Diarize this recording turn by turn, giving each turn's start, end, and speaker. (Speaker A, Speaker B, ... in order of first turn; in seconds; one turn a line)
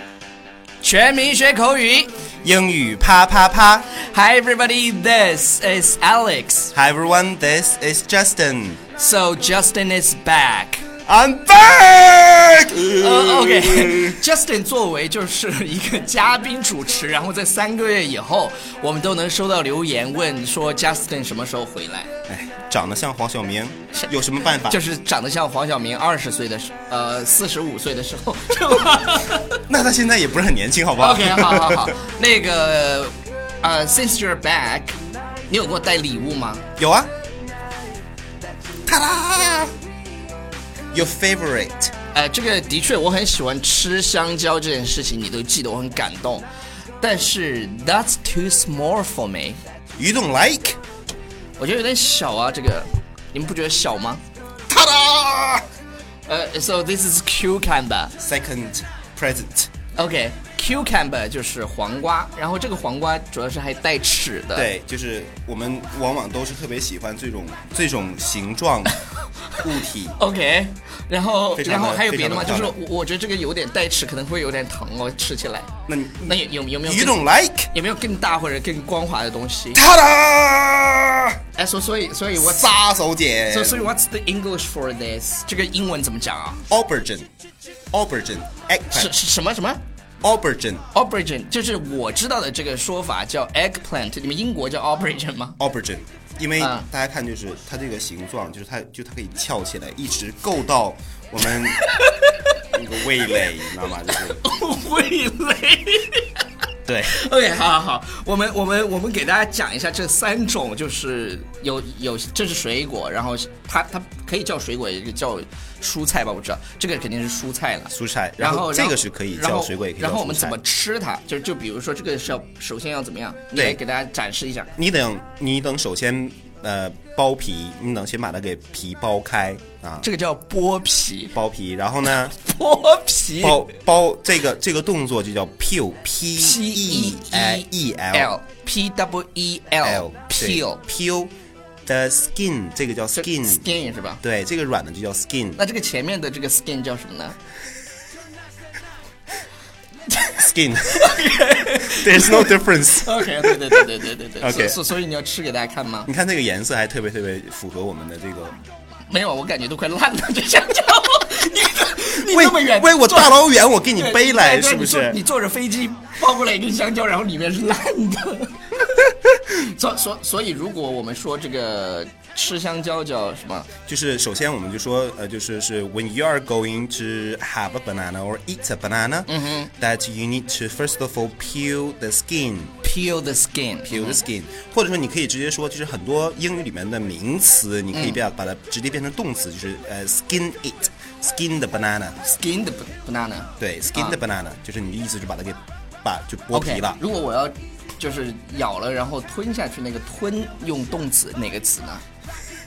Speaker A: 0.8-2.2
Speaker B: 2.4-3.9
Speaker A: 3.9-6.7
Speaker B: 6.8-8.8
Speaker A: 9.0-10.8
Speaker B: 11.1-14.2
Speaker A: 12.9-22.1
Speaker B: 22.3-24.8
Speaker A: 23.9-29.6
Speaker B: 29.7-31.9
Speaker A: 31.0-35.0
Speaker A: 35.5-36.6
Speaker B: 36.8-37.1
Speaker B: 38.9-39.7
Speaker B: 40.9-41.9
Speaker A: 42.1-46.5
Speaker A: 47.0-49.6
Speaker B: 50.0-50.8
Speaker A: 51.6-54.2
Speaker B: 54.7-55.6
Speaker A: 56.3-58.2
Speaker B: 58.2-59.7
Speaker A: 60.0-64.7
Speaker B: 64.5-69.0
Speaker B: 69.6-70.2
Speaker A: 70.2-79.8
Speaker B: 71.6-72.8
Speaker B: 75.9-77.7
Speaker B: 79.7-81.4
Speaker A: 81.5-82.8
Speaker B: 82.4-84.0
Speaker A: 83.5-86.6
Speaker B: 86.7-87.3
Speaker B: 87.9-89.1
Speaker A: 88.9-89.8
Speaker B: 90.2-90.8
Speaker A: 90.9-95.6
Speaker B: 95.6-101.8
Speaker A: 96.6-96.9
Speaker A: 101.5-102.6
Speaker B: 102.7-104.4
Speaker A: 104.1-106.5
Speaker B: 106.9-107.2
Speaker A: 107.0-124.7
Speaker B: 117.9-120.6
Speaker B: 123.5-123.8
Speaker B: 124.8-130.1
Speaker A: 130.0-131.4
Speaker B: 131.3-132.3
Speaker A: 132.3-133.6
Speaker B: 133.4-138.3
Speaker A: 136.4-140.8
Speaker B: 139.8-141.3
Speaker B: 141.9-143.7
Speaker A: 143.2-144.2
Speaker B: 144.2-145.6
Speaker A: 145.6-147.4
Speaker A: 150.1-156.1
Speaker B: 150.3-151.2
Speaker B: 151.9-153.9
Speaker B: 154.4-154.8
Speaker B: 156.1-158.6
Speaker A: 159.1-173.7
Speaker B: 162.1-165.2
Speaker B: 173.9-182.8
Speaker A: 179.3-179.7
Speaker A: 182.8-184.2
Speaker B: 183.9-192.2
Speaker A: 187.9-188.2
Speaker A: 192.2-194.2
Speaker B: 193.6-197.0
Speaker A: 196.5-202.0